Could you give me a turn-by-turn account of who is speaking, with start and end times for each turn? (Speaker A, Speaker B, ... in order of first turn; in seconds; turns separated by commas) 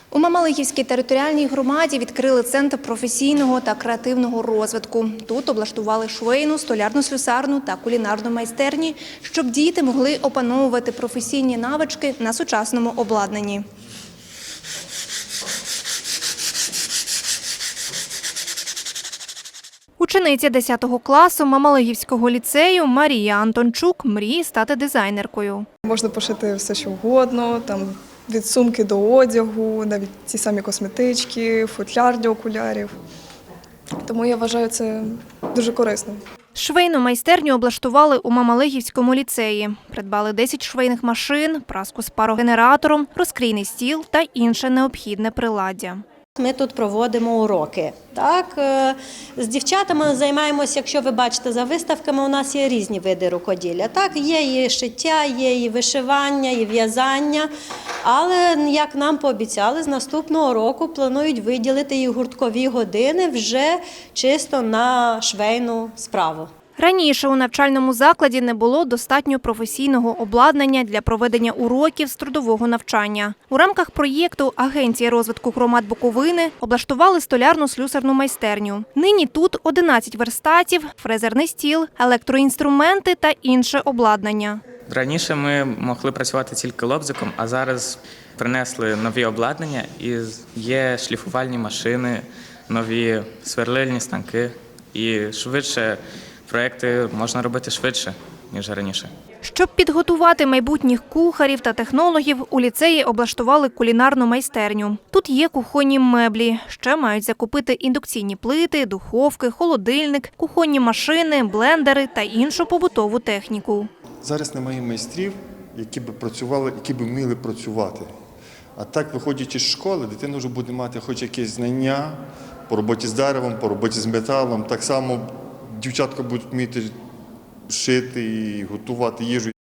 Speaker A: 0.1-13.7, Speaker A: 20.0-25.7, Speaker B: 25.8-32.9, Speaker B: 34.0-36.2, Speaker A: 36.5-46.0, Speaker C: 46.4-57.5, Speaker C: 58.0-66.5, Speaker A: 66.8-84.6, Speaker D: 84.9-99.1, Speaker A: 99.4-113.9, Speaker E: 114.2-118.1, Speaker E: 118.8-126.9, Speaker E: 127.7-129.5